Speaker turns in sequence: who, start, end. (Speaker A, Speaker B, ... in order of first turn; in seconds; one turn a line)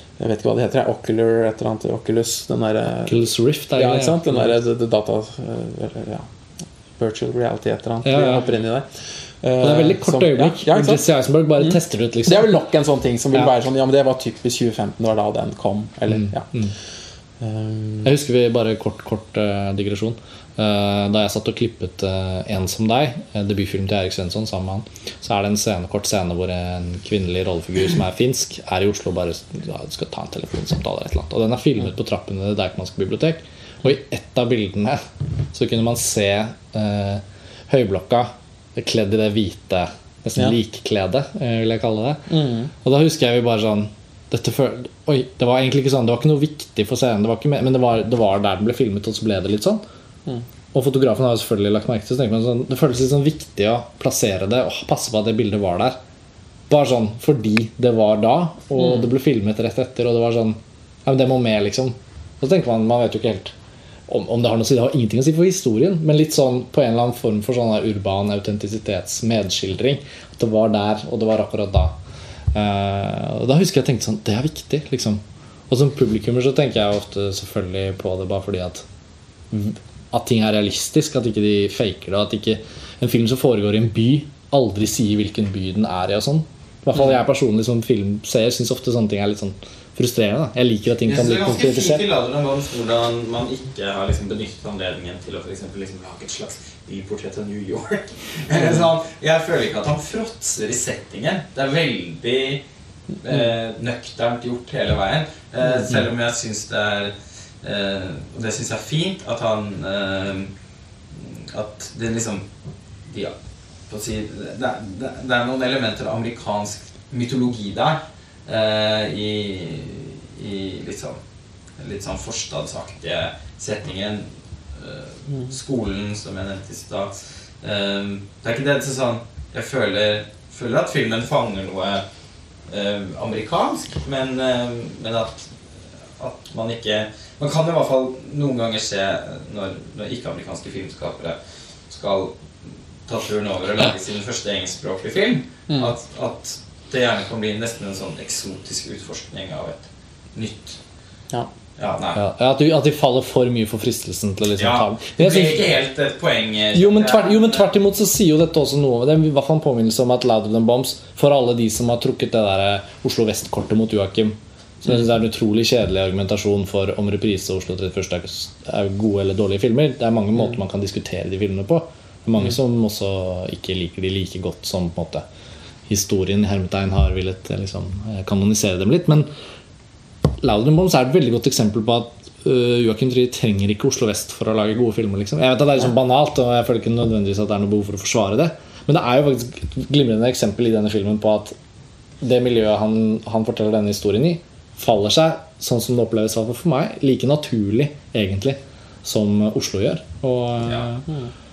Speaker A: 0.2-6.3
Speaker B: 3.1-4.5
Speaker A: 7.0-8.9
Speaker B: 8.0-8.5
Speaker A: 9.4-11.1
Speaker B: 9.6-12.6
Speaker A: 11.6-16.5
Speaker B: 16.1-16.8
Speaker A: 17.4-18.1
Speaker B: 18.0-35.0
Speaker B: 35.5-42.3
Speaker A: 42.3-42.7
Speaker B: 42.8-49.8
Speaker B: 50.7-56.0
Speaker B: 56.7-63.5
Speaker A: 58.8-59.1
Speaker B: 64.1-72.0
Speaker B: 72.5-78.9
Speaker B: 79.5-92.0
Speaker C: 91.0-102.6
Speaker A: 98.6-98.9
Speaker C: 103.2-110.5
Speaker C: 111.1-112.5
Speaker C: 113.1-113.3
Speaker C: 113.9-121.2
Speaker C: 121.8-132.0
Speaker C: 132.7-135.5
Speaker C: 136.2-141.4
Speaker C: 141.9-150.8
Speaker A: 145.7-145.9
Speaker C: 151.8-152.2
Speaker B: 152.2-155.7
Speaker C: 154.6-157.7
Speaker B: 156.7-175.2
Speaker B: 175.9-179.3
Speaker B: 180.4-191.6
Speaker B: 192.2-201.1